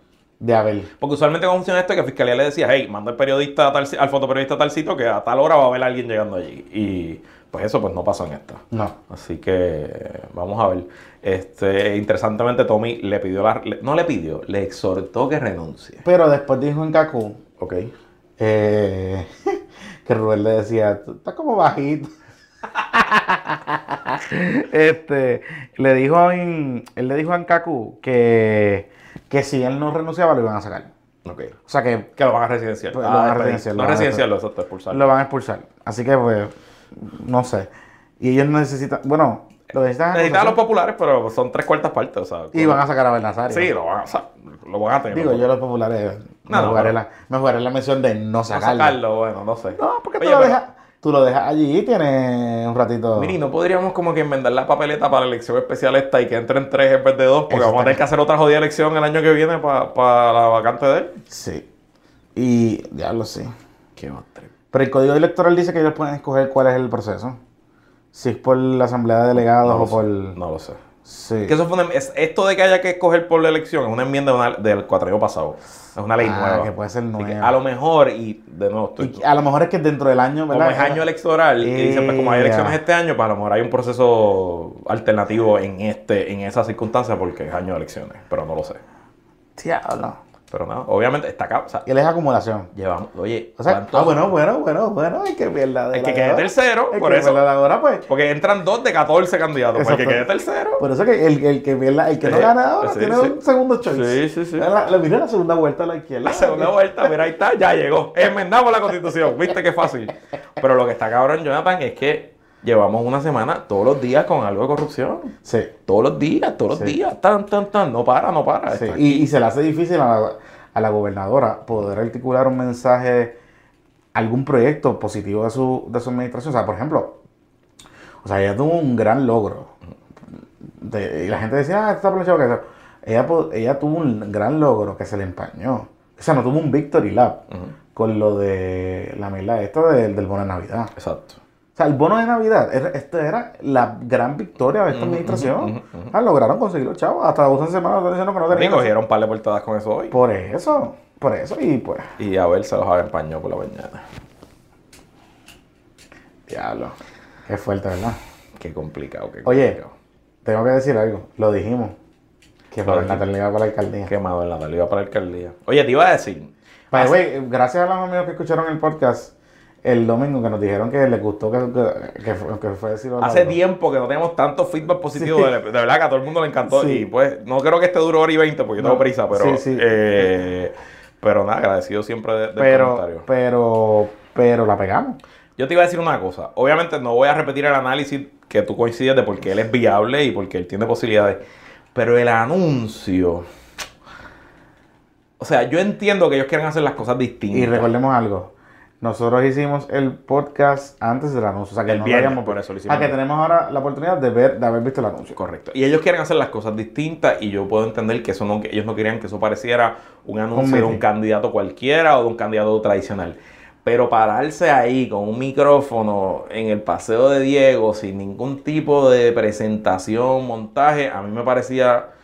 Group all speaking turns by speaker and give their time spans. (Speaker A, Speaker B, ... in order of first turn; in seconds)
Speaker A: 0.4-0.9, 16.0-17.4, 18.4-22.1, 22.8-30.9, 31.6-32.1, 32.9-34.2, 34.9-40.6, 42.5-43.7, 45.1-49.0, 49.8-53.4, 57.5-58.0, 61.3-61.6, 62.4-63.5, 64.7-67.4, 68.1-70.4, 71.0-71.6, 76.2-77.5, 79.0-81.0, 81.6-82.8, 89.6-90.2, 91.9-92.7, 93.6-98.1, 99.8-107.1, 115.5-115.7, 118.7-123.4, 124.1-127.2, 128.2-129.7, 130.3-137.4, 137.9-140.9, 141.8-148.9, 150.1-152.1, 156.5-158.2, 159.4-159.8, 160.4-161.9, 162.7-164.1, 166.9-173.6, 175.1-175.5, 176.6-177.1, 178.8-179.9, 182.6-185.2, 197.5-205.4, 210.5-211.0
Speaker B: 1.0-16.0, 17.6-17.9, 31.2-31.6, 32.1-35.1, 40.1-42.8, 43.5-45.5, 46.5-47.0, 48.5-50.6, 53.1-61.2, 64.0-64.5, 69.4-70.8, 71.5-79.2, 80.5-88.8, 90.5-91.9, 92.7-94.3, 95.9-97.4, 98.1-100.8, 102.2-104.7, 106.2-115.3, 115.9-119.2, 141.0-141.4, 144.9-146.1, 148.5-150.2, 152.2-154.0, 158.6-159.9, 162.8-163.2, 164.1-167.2, 173.2-183.2, 185.6-191.4, 191.9-193.5, 195.4-197.9, 201.9-203.2, 205.3-222.1